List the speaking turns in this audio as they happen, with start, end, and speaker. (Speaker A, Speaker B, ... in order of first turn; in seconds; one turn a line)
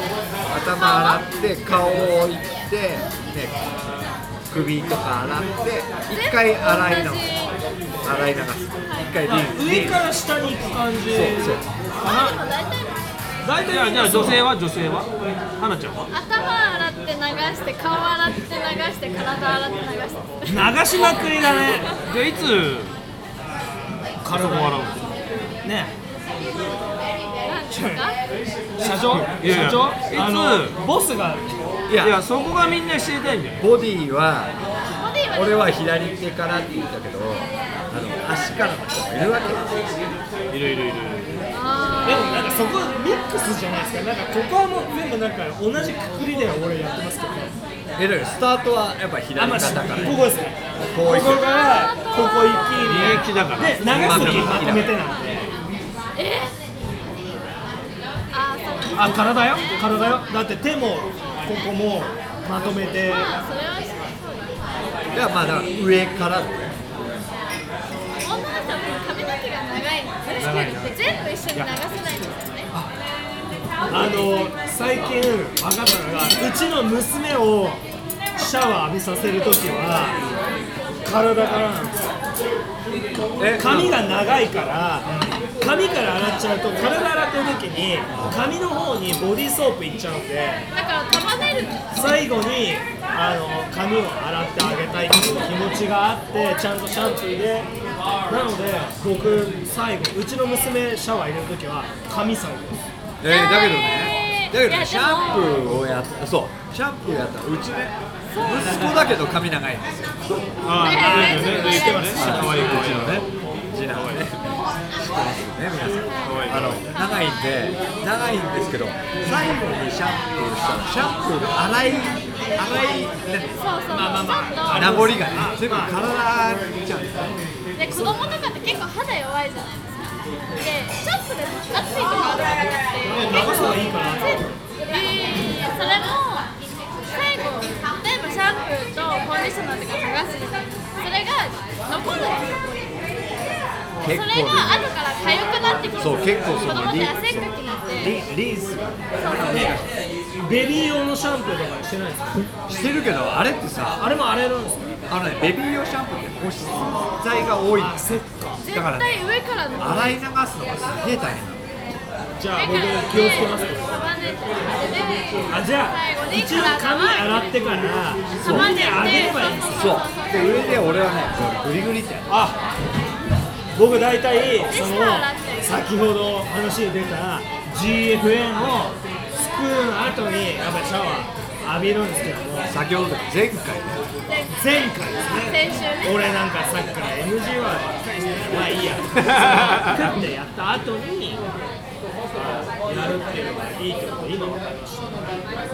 Speaker A: 0.5-3.9
Speaker B: 0.7-1.2
Speaker A: 4.5-7.4
Speaker B: 6.1-7.6
Speaker A: 8.0-10.0
Speaker B: 8.9-9.1
Speaker C: 9.2-12.4
Speaker A: 11.1-11.6
Speaker B: 12.0-13.0
Speaker C: 13.4-14.4
Speaker D: 13.6-16.1
Speaker B: 16.1-22.0
Speaker C: 20.5-21.9
Speaker D: 22.1-22.9
Speaker C: 24.2-24.8
Speaker D: 24.3-25.2
Speaker C: 25.6-25.9
Speaker B: 27.4-28.2
Speaker C: 27.7-28.0
Speaker C: 28.8-31.7
Speaker D: 29.2-30.8
Speaker A: 31.9-32.2
Speaker D: 32.0-33.6
Speaker A: 33.6-34.5
Speaker B: 34.9-35.8
Speaker A: 35.3-39.8
Speaker D: 40.5-41.4
Speaker B: 41.5-42.5
Speaker C: 42.0-47.5
Speaker A: 48.0-50.3
Speaker C: 49.4-55.5
Speaker A: 50.9-51.5
Speaker B: 51.2-52.8
Speaker D: 52.8-54.6
Speaker A: 53.8-54.9
Speaker B: 56.1-56.5
Speaker B: 58.3-60.0
Speaker C: 58.9-63.4
Speaker B: 63.0-64.6
Speaker A: 65.1-66.8
Speaker B: 68.2-72.7
Speaker D: 70.4-70.9
Speaker C: 70.6-70.9
Speaker C: 73.9-77.8
Speaker C: 78.3-80.2
Speaker C: 81.0-82.1
Speaker A: 83.4-84.0
Speaker C: 83.6-90.7
Speaker B: 90.7-92.1
Speaker C: 91.9-97.7
Speaker C: 98.3-102.8
Speaker A: 103.2-110.5
Speaker B: 103.2-105.7
Speaker B: 108.3-109.0
Speaker D: 110.6-113.3
Speaker B: 110.8-112.2
Speaker C: 110.8-113.0
Speaker A: 112.1-123.6
Speaker D: 113.9-114.2
Speaker D: 116.2-116.8
Speaker B: 123.6-125.1
Speaker C: 123.9-126.0
Speaker A: 124.7-127.3
Speaker B: 127.8-143.0
Speaker C: 127.9-128.2
Speaker C: 133.1-134.5
Speaker A: 144.0-144.9
Speaker B: 144.0-148.2
Speaker A: 146.0-147.5
Speaker C: 148.0-148.9
Speaker B: 149.2-149.8
Speaker A: 149.2-149.9
Speaker C: 150.3-152.5
Speaker A: 152.7-154.0
Speaker C: 154.0-154.9
Speaker A: 155.1-158.0
Speaker C: 157.7-158.6
Speaker B: 158.6-160.2
Speaker A: 158.7-159.2
Speaker A: 159.8-161.6
Speaker C: 162.4-164.1
Speaker B: 162.5-167.4
Speaker C: 165.5-169.9
Speaker A: 168.4-168.7
Speaker B: 168.4-171.0
Speaker A: 169.7-172.3
Speaker C: 172.3-172.6
Speaker C: 173.7-182.7
Speaker B: 174.7-175.9
Speaker A: 182.7-184.0
Speaker B: 184.2-186.3
Speaker C: 184.5-191.4
Speaker D: 189.2-190.0
Speaker C: 192.3-195.3